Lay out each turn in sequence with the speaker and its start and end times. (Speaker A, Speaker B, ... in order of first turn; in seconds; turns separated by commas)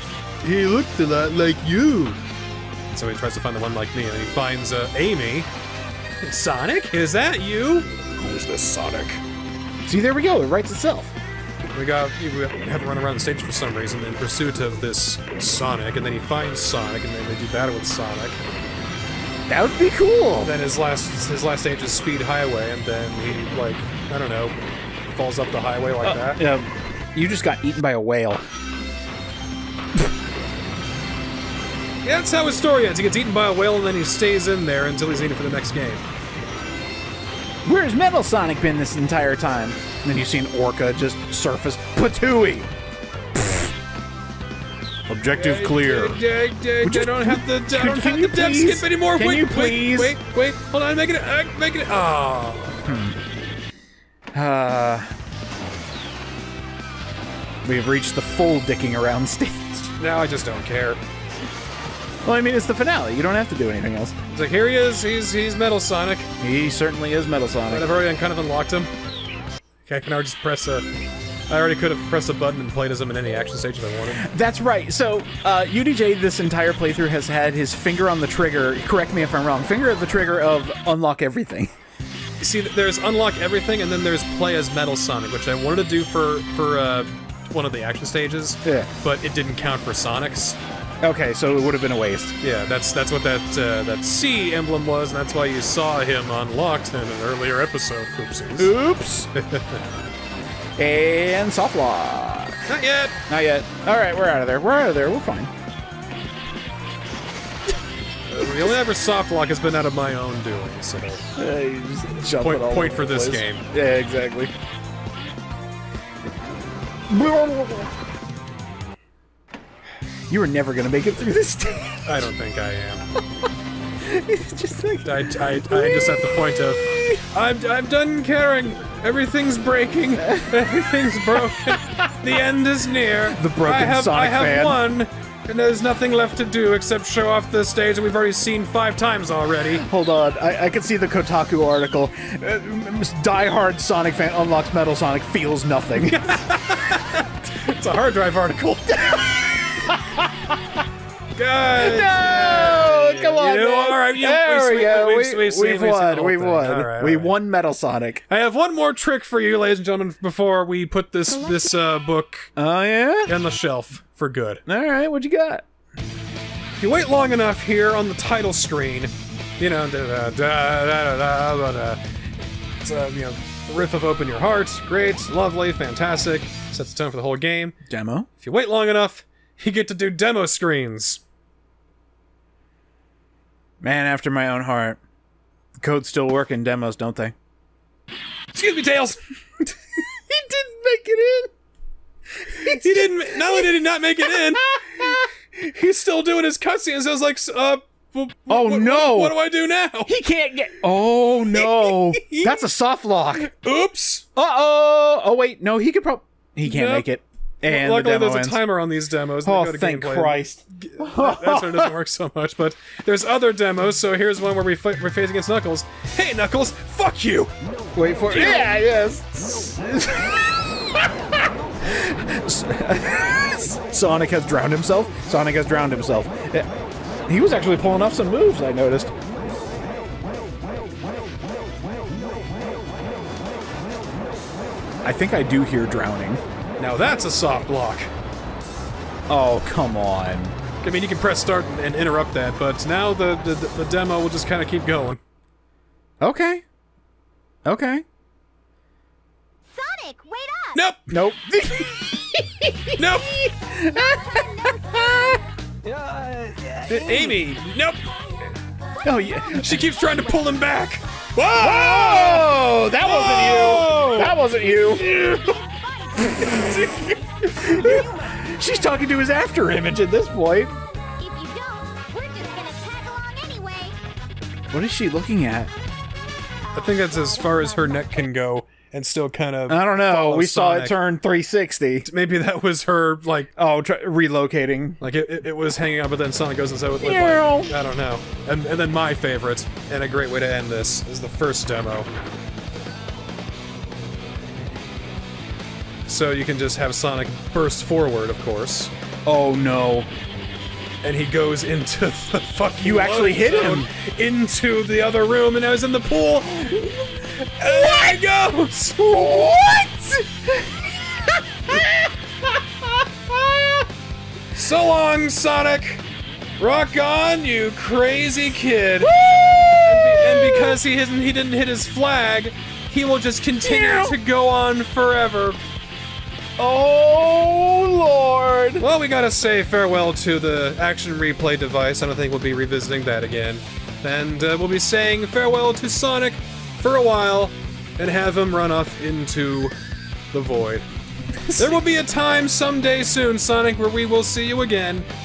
Speaker A: 0.4-2.2, Speaker A: 2.9-5.5, Speaker A: 6.2-9.2, Speaker B: 9.9-11.1, Speaker A: 11.7-18.4, Speaker B: 19.5-20.5, Speaker A: 20.4-24.6, Speaker A: 25.1-26.4, Speaker B: 26.0-28.4, Speaker A: 32.0-36.0, Speaker B: 37.6-42.7, Speaker B: 43.3-43.7, Speaker B: 45.1-46.2, Speaker A: 45.4-53.0, Speaker B: 46.8-50.2, Speaker B: 52.9-53.2, Speaker B: 54.3-55.1, Speaker B: 57.6-59.9, Speaker A: 60.0-61.0, Speaker B: 62.2-64.2, Speaker A: 64.3-66.3, Speaker B: 66.4-67.9, Speaker A: 67.7-68.9, Speaker A: 69.8-70.9, Speaker A: 71.5-74.3, Speaker B: 74.1-81.7, Speaker A: 82.4-90.6, Speaker B: 88.6-88.9, Speaker B: 91.0-92.4, Speaker A: 92.4-98.7, Speaker B: 98.6-99.3, Speaker A: 99.3-99.8, Speaker B: 100.8-102.6, Speaker A: 102.7-103.2, Speaker B: 103.3-105.5, Speaker A: 108.3-111.2, Speaker B: 111.4-114.5, Speaker A: 112.3-113.6, Speaker B: 117.1-117.9, Speaker B: 120.3-122.3, Speaker A: 122.0-123.0, Speaker B: 124.0-127.2, Speaker A: 125.0-139.8, Speaker B: 130.2-132.3, Speaker B: 133.2-134.8, Speaker B: 139.8-146.3, Speaker A: 146.0-149.9, Speaker B: 149.8-150.5, Speaker A: 151.3-157.3, Speaker B: 151.8-158.2, Speaker A: 158.3-162.5, Speaker C: 161.4-161.8, Speaker B: 162.6-163.3, Speaker A: 163.3-164.6, Speaker B: 164.7-165.7, Speaker A: 166.8-172.0, Speaker A: 172.8-177.8, Speaker B: 177.9-178.3, Speaker A: 178.4-181.2, Speaker B: 183.8-185.0, Speaker B: 185.8-187.3, Speaker A: 188.5-189.2, Speaker B: 190.1-191.5, Speaker B: 192.3-195.3, Speaker A: 192.7-200.1, Speaker B: 198.5-199.4, Speaker B: 200.1-203.5, Speaker A: 201.5-202.6, Speaker A: 203.4-204.3, Speaker B: 204.4-208.6, Speaker A: 206.6-207.1, Speaker A: 207.6-217.5, Speaker B: 209.4-211.9, Speaker D: 217.6-222.1, Speaker B: 217.9-226.7, Speaker A: 218.2-218.7, Speaker B: 227.3-229.1, Speaker D: 229.3-234.3, Speaker B: 235.0-236.4, Speaker A: 236.8-238.1, Speaker B: 239.3-240.6, Speaker A: 240.8-245.2, Speaker B: 246.2-246.6, Speaker B: 247.7-248.1, Speaker C: 249.7-250.8, Speaker A: 250.7-251.1, Speaker B: 251.1-255.4, Speaker A: 253.0-253.4, Speaker C: 253.8-255.4, Speaker D: 255.8-257.5, Speaker A: 256.9-258.1, Speaker B: 259.0-259.9, Speaker A: 259.5-265.5, Speaker C: 260.2-260.5, Speaker B: 261.5-265.2, Speaker C: 264.6-269.1, Speaker B: 266.2-270.8, Speaker A: 266.4-267.1, Speaker C: 271.2-274.0, Speaker B: 274.7-275.7, Speaker C: 276.7-278.2, Speaker A: 276.7-281.0, Speaker B: 279.7-282.1, Speaker A: 282.0-283.5, Speaker B: 283.6-285.0, Speaker A: 285.0-292.1, Speaker B: 287.0-287.8, Speaker A: 296.1-298.9, Speaker B: 299.3-300.1, Speaker A: 301.0-309.1, Speaker B: 302.8-303.9, Speaker B: 307.6-308.2, Speaker B: 309.0-313.9, Speaker A: 314.6-316.0, Speaker A: 316.6-319.1, Speaker B: 319.0-320.8, Speaker A: 319.8-325.6, Speaker B: 323.6-324.2, Speaker B: 326.6-328.9, Speaker A: 328.8-339.8, Speaker A: 340.3-340.9, Speaker B: 341.4-341.8, Speaker A: 341.5-345.1